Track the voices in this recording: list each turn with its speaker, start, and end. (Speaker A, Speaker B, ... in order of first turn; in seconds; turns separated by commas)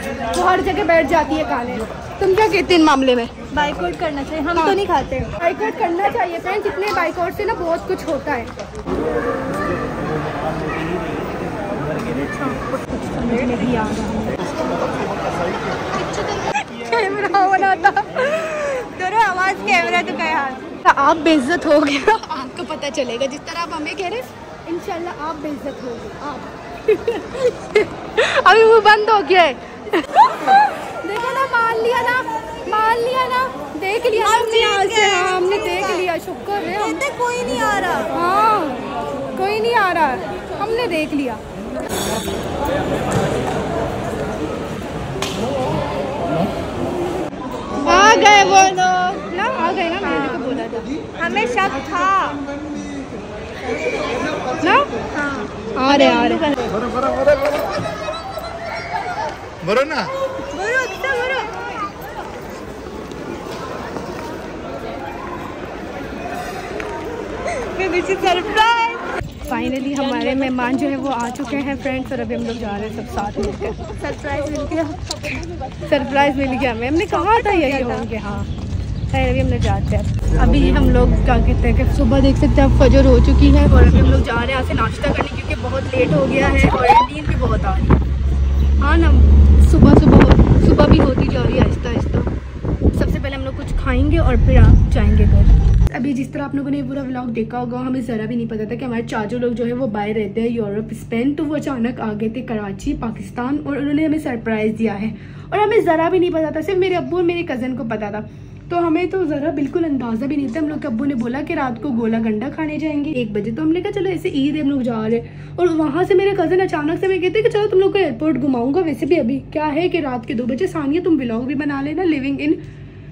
Speaker A: 0.3-3.3, Speaker B: 3.5-5.3, Speaker A: 4.5-4.8, Speaker A: 5.4-8.5, Speaker C: 9.6-12.2, Speaker A: 12.3-14.4, Speaker C: 14.4-15.7, Speaker A: 15.9-18.4, Speaker B: 18.2-20.6, Speaker A: 20.8-37.0, Speaker B: 34.1-36.1, Speaker B: 36.7-38.1, Speaker A: 38.1-38.8, Speaker A: 39.3-41.4, Speaker A: 47.8-50.9, Speaker B: 47.9-48.5, Speaker B: 51.2-52.5, Speaker A: 54.6-54.9, Speaker B: 55.1-56.6, Speaker A: 55.8-56.5, Speaker C: 59.6-60.1, Speaker B: 60.5-61.6, Speaker B: 67.5-69.1, Speaker A: 69.5-73.8, Speaker B: 73.8-75.4, Speaker A: 75.8-78.5, Speaker B: 77.1-78.1, Speaker A: 79.1-88.0, Speaker C: 80.4-80.9, Speaker A: 88.8-92.3, Speaker A: 92.9-122.6